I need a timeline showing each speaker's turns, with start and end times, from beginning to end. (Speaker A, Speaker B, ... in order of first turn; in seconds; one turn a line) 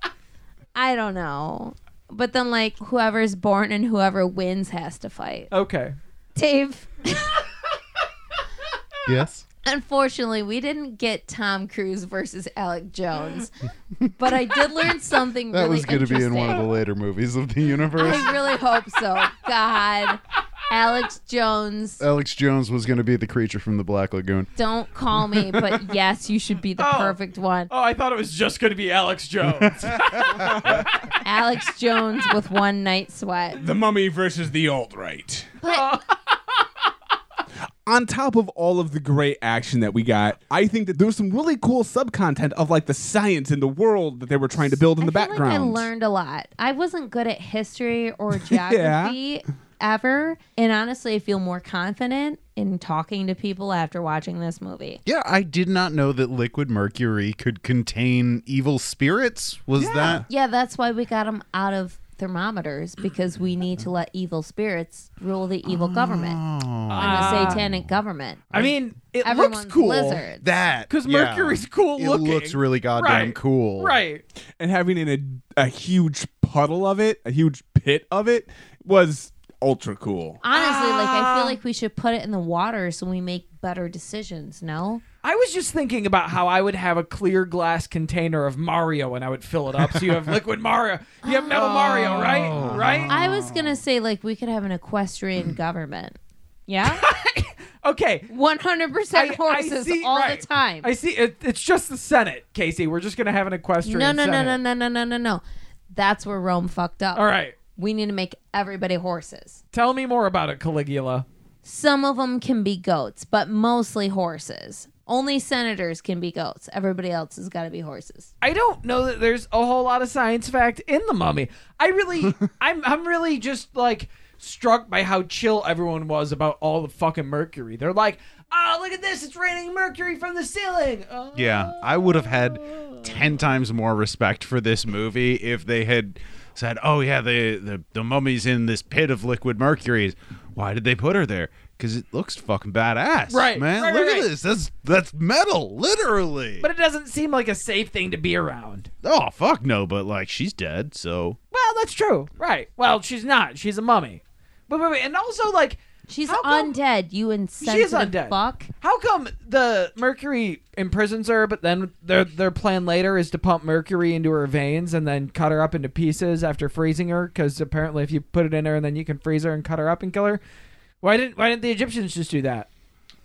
Speaker A: 0.8-5.5
Speaker B: 5.5-6.0
Speaker A: 6.4-7.5
Speaker C: 9.1-9.4
Speaker A: 9.7-13.5
Speaker A: 14.1-16.7
Speaker C: 15.5-18.4
Speaker A: 18.0-22.0
Speaker C: 22.0-24.5
Speaker A: 24.6-27.7
Speaker B: 26.8-27.2
Speaker B: 27.7-31.2
Speaker C: 29.6-30.8
Speaker D: 30.4-30.8
Speaker A: 31.2-33.6
Speaker D: 33.6-35.5
Speaker A: 35.6-35.9
Speaker B: 35.7-36.6
Speaker D: 37.9-45.9
Speaker A: 45.0-55.0
Speaker D: 48.5-49.2
Speaker C: 55.1-60.3
Speaker D: 59.8-60.2
Speaker A: 60.3-66.4
Speaker C: 65.7-67.9
Speaker B: 66.9-67.6
Speaker A: 67.0-68.6
Speaker B: 68.5-70.2
Speaker A: 69.2-70.5
Speaker C: 70.4-74.0
Speaker B: 70.9-74.2
Speaker D: 74.6-80.4
Speaker A: 80.4-85.0
Speaker B: 80.5-81.6
Speaker B: 85.2-93.2
Speaker A: 91.2-92.5
Speaker C: 91.5-93.8
Speaker D: 92.5-92.8
Speaker A: 93.1-97.0
Speaker B: 96.9-98.3
Speaker A: 98.3-100.9
Speaker B: 99.1-104.6
Speaker A: 103.8-109.6
Speaker B: 107.2-107.5
Speaker B: 109.7-111.3
Speaker A: 111.7-118.3
Speaker B: 118.4-133.0
Speaker C: 131.3-146.7
Speaker B: 143.3-144.3
Speaker B: 146.6-148.9
Speaker C: 149.0-151.4
Speaker B: 151.5-156.8
Speaker A: 156.1-158.7
Speaker B: 157.6-170.4
Speaker B: 171.0-172.7